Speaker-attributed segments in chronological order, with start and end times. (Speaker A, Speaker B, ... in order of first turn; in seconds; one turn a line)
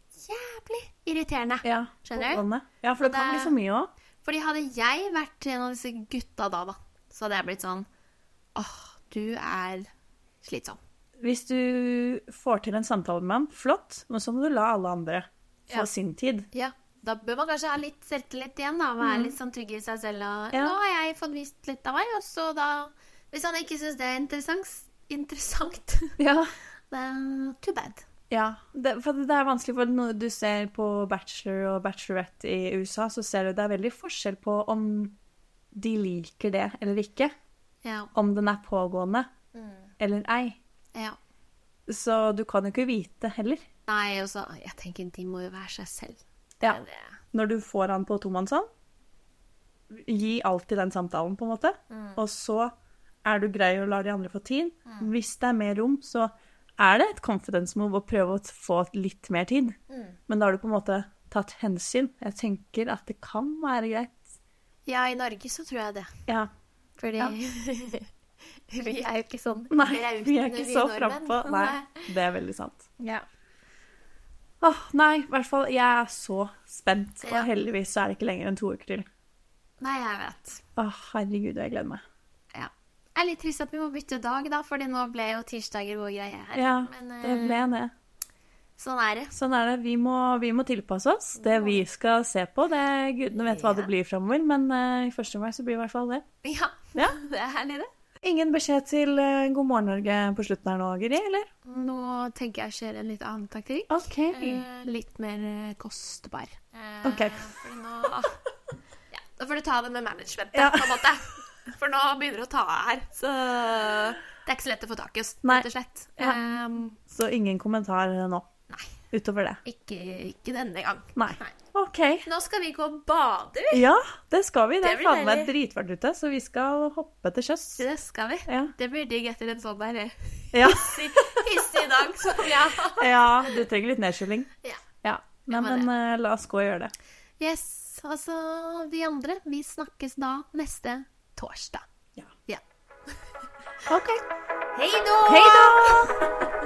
Speaker A: 0.1-2.4
Speaker B: 1.6-3.9
Speaker A: 3.0-3.5
Speaker A: 4.2-7.9
Speaker A: 8.5-9.9
Speaker A: 10.4-10.8
Speaker B: 11.2-16.5
Speaker A: 16.5-26.2
Speaker B: 19.0-19.3
Speaker B: 26.2-26.5
Speaker A: 26.9-28.0
Speaker B: 28.3-35.2
Speaker B: 35.7-37.3
Speaker A: 37.8-38.1
Speaker B: 38.1-39.3
Speaker A: 39.5-39.9
Speaker B: 40.0-40.6
Speaker B: 41.9-43.6
Speaker A: 43.9-47.2
Speaker B: 47.3-48.7
Speaker B: 49.9-52.7
Speaker A: 51.9-52.2
Speaker B: 53.2-59.8
Speaker A: 59.9-60.2
Speaker B: 60.3-64.2
Speaker A: 64.9-66.1
Speaker A: 67.0-68.1
Speaker A: 68.7-72.1
Speaker B: 69.7-72.9
Speaker B: 74.6-79.1
Speaker A: 77.2-77.5
Speaker A: 79.8-80.6
Speaker B: 80.8-82.0
Speaker A: 82.5-87.7
Speaker B: 86.5-87.9
Speaker A: 88.8-89.3
Speaker B: 89.3-96.2
Speaker A: 91.4-91.8
Speaker A: 93.5-93.9
Speaker A: 96.4-97.9
Speaker B: 98.2-101.5
Speaker A: 101.6-108.4
Speaker B: 103.9-104.6
Speaker B: 107.0-107.4
Speaker A: 109.1-117.0
Speaker B: 110.5-111.1
Speaker B: 115.4-116.4
Speaker B: 117.1-118.5
Speaker B: 119.1-119.6
Speaker A: 119.6-121.5
Speaker B: 121.1-122.3
Speaker A: 122.2-123.8
Speaker B: 123.7-127.8
Speaker A: 124.8-125.5
Speaker A: 127.8-133.5
Speaker B: 128.5-128.7
Speaker B: 130.5-131.5
Speaker B: 132.9-134.5
Speaker B: 135.0-136.9
Speaker A: 135.5-135.9
Speaker A: 137.4-141.8
Speaker A: 142.5-143.2
Speaker B: 143.9-144.2
Speaker A: 144.7-146.2
Speaker B: 145.2-146.3